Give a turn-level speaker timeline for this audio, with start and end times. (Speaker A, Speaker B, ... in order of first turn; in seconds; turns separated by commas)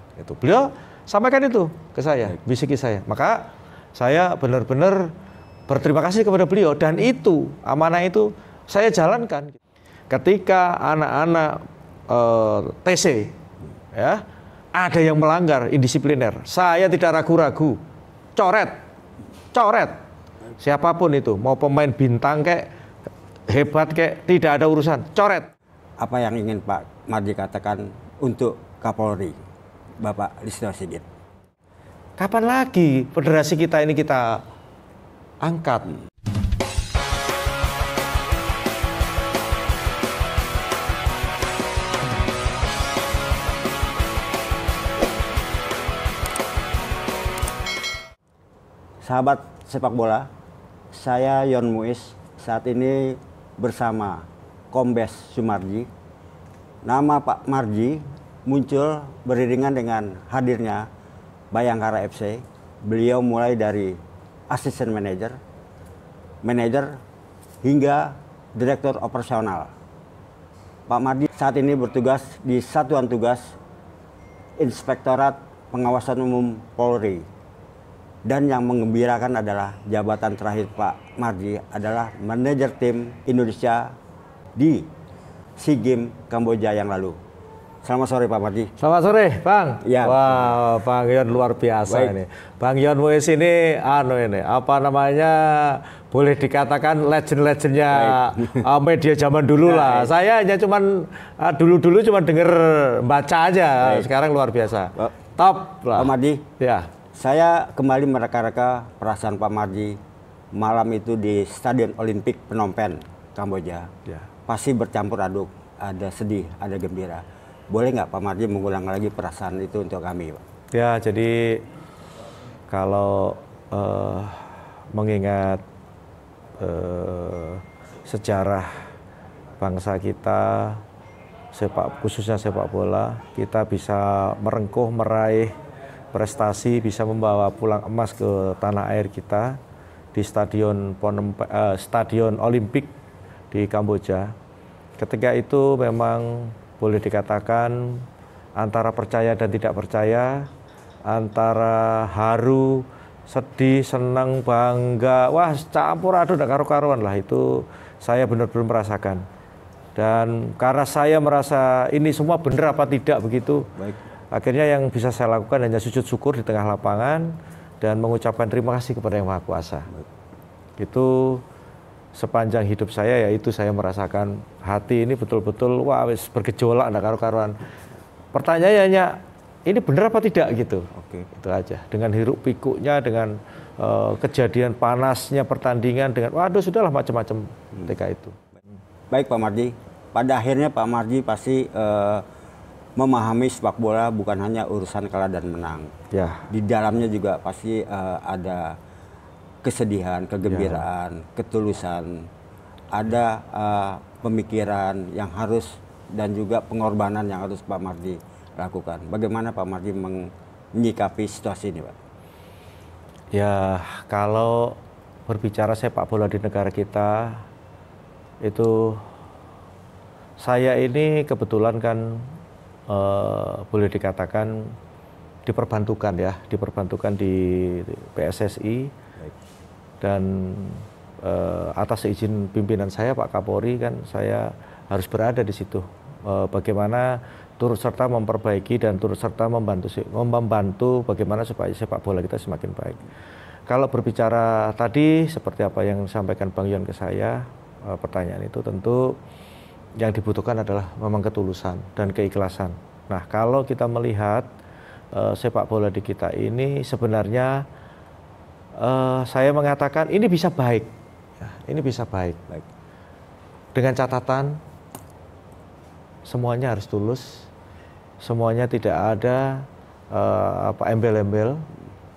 Speaker A: 0.2-5.1, Speaker A: 5.7-9.6, Speaker A: 10.1-13.3, Speaker A: 13.9-14.2, Speaker A: 14.7-17.8, Speaker A: 18.4-18.8, Speaker A: 19.5-20.0, Speaker A: 20.6-22.7, Speaker A: 23.5-25.5, Speaker B: 26.0-29.4, Speaker B: 30.0-31.0, Speaker A: 32.2-34.4, Speaker A: 35.4-35.9, Speaker B: 49.0-50.3, Speaker B: 50.9-55.9, Speaker B: 56.8-60.9, Speaker B: 61.5-64.0, Speaker B: 64.5-65.4, Speaker B: 66.4-67.0, Speaker B: 67.6-69.7, Speaker B: 70.9-73.6, Speaker B: 74.6-77.2, Speaker B: 78.2-84.0, Speaker B: 84.5-84.9, Speaker B: 85.6-87.2, Speaker B: 87.8-88.7, Speaker A: 88.8-106.9, Speaker B: 89.8-90.6, Speaker B: 91.9-92.1, Speaker B: 97.9-98.7, Speaker B: 99.6-100.1, Speaker B: 103.8-104.1, Speaker B: 105.9-106.5, Speaker B: 107.1-110.0, Speaker B: 110.5-113.9, Speaker B: 114.5-120.4, Speaker A: 120.7-121.6, Speaker A: 122.7-125.6, Speaker A: 126.6-128.8, Speaker A: 129.6-130.8, Speaker A: 131.5-135.6, Speaker A: 136.1-139.6, Speaker A: 140.1-142.9, Speaker A: 143.5-144.3, Speaker A: 145.0-148.0, Speaker A: 148.6-150.5, Speaker A: 151.1-159.2, Speaker A: 159.9-163.7, Speaker A: 164.3-169.9, Speaker A: 170.8-171.4, Speaker A: 172.1-177.6, Speaker A: 178.3-188.4, Speaker B: 180.9-181.3, Speaker B: 189.1-192.2, Speaker B: 192.9-195.9, Speaker A: 196.1-196.5, Speaker B: 196.5-198.8, Speaker B: 199.6-202.3, Speaker A: 200.5-200.8, Speaker B: 202.9-211.9, Speaker A: 213.3-217.4, Speaker A: 218.4-219.1, Speaker A: 220.4-222.3, Speaker A: 222.9-224.7, Speaker A: 225.4-228.9, Speaker A: 230.0-243.0, Speaker A: 243.7-249.2, Speaker A: 250.0-254.5, Speaker A: 255.1-257.6, Speaker A: 258.8-260.9, Speaker A: 261.4-262.4, Speaker A: 263.7-264.6, Speaker A: 266.3-267.5, Speaker A: 268.2-271.6